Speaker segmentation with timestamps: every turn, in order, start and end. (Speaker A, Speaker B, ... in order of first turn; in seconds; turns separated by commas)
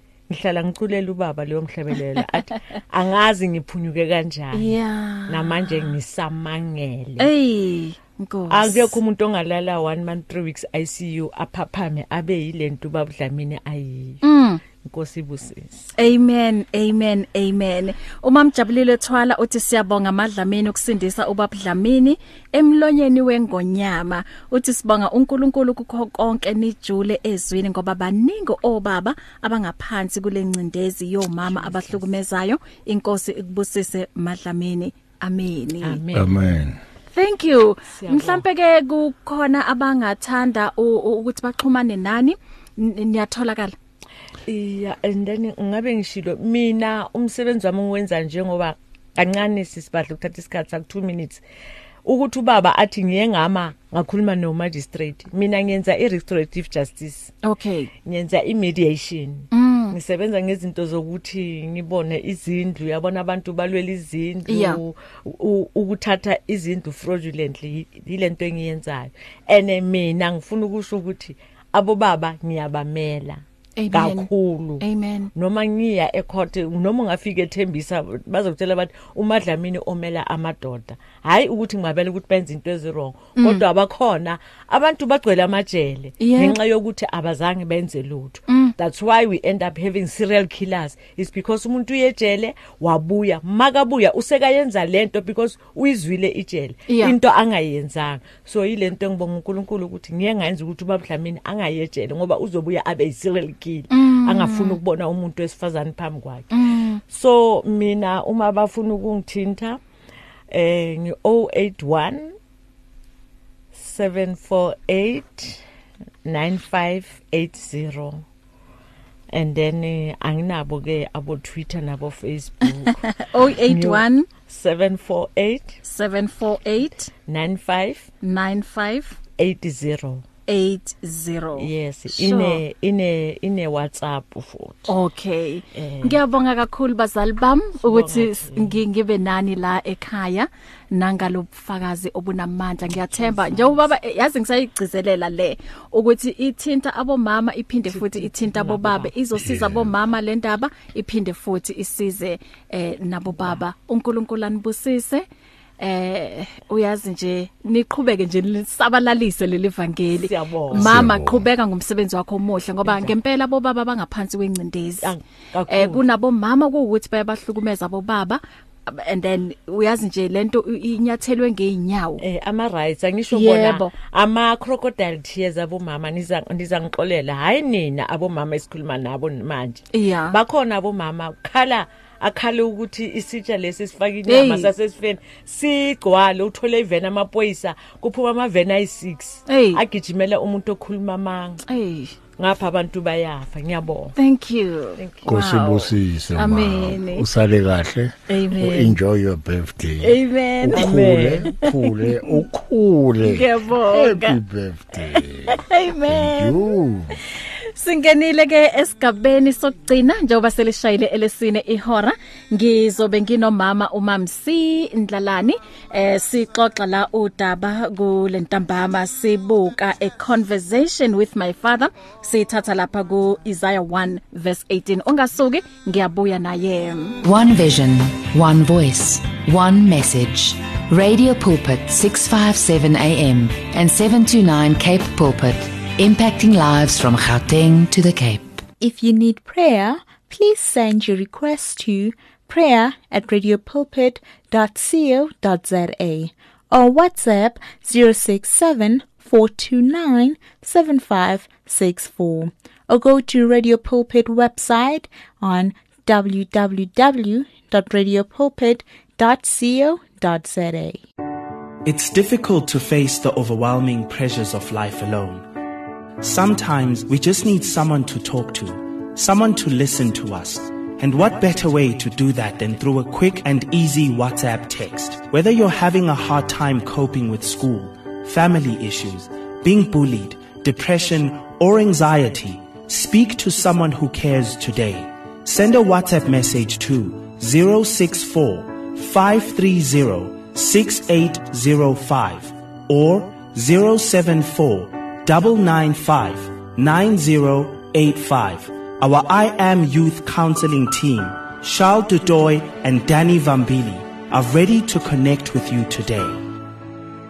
Speaker A: 0.3-7.3, Speaker B: 4.5-5.9, Speaker B: 7.2-8.9, Speaker A: 8.5-14.2, Speaker B: 14.2-14.6, Speaker A: 14.8-15.9, Speaker B: 16.0-36.0, Speaker A: 31.4-32.1, Speaker A: 35.8-36.4, Speaker C: 36.1-36.8, Speaker B: 37.1-43.8, Speaker A: 37.9-38.4, Speaker A: 44.5-51.4, Speaker A: 52.0-57.3, Speaker B: 57.4-57.9, Speaker A: 58.0-106.5, Speaker B: 59.5-60.0, Speaker B: 64.5-64.8, Speaker B: 73.8-75.3, Speaker B: 83.4-83.6, Speaker B: 86.2-86.6, Speaker B: 88.5-88.8, Speaker B: 96.9-97.2, Speaker B: 103.9-104.8, Speaker B: 106.5-107.0, Speaker A: 107.1-109.8, Speaker A: 110.5-112.4, Speaker A: 113.7-115.6, Speaker A: 116.2-118.2, Speaker A: 119.3-125.8, Speaker B: 122.9-124.3, Speaker B: 125.8-127.1, Speaker A: 127.2-128.1, Speaker B: 128.2-129.2, Speaker A: 129.4-130.2, Speaker B: 130.5-132.6, Speaker A: 131.6-134.9, Speaker B: 134.9-155.3, Speaker A: 135.7-136.2, Speaker A: 137.8-138.8, Speaker A: 143.0-143.9, Speaker A: 147.9-149.1, Speaker C: 149.3-149.9, Speaker A: 153.4-153.6, Speaker B: 155.8-165.1, Speaker A: 160.2-161.1, Speaker C: 160.7-161.5, Speaker A: 162.8-163.1, Speaker A: 165.0-166.0, Speaker B: 165.7-172.2, Speaker A: 172.2-191.6, Speaker B: 173.3-173.9, Speaker B: 179.9-180.4, Speaker B: 184.3-184.7, Speaker B: 189.5-189.8, Speaker B: 191.7-192.2, Speaker A: 192.4-194.2, Speaker B: 194.2-197.3, Speaker A: 195.0-195.3, Speaker C: 195.2-207.2, Speaker B: 198.3-199.0, Speaker B: 200.0-200.9, Speaker A: 200.8-201.5, Speaker B: 201.6-202.4, Speaker B: 203.2-204.4, Speaker B: 205.2-206.7, Speaker B: 207.8-227.2, Speaker D: 227.2-238.6, Speaker E: 238.8-261.0, Speaker F: 261.9-265.5, Speaker F: 266.2-306.5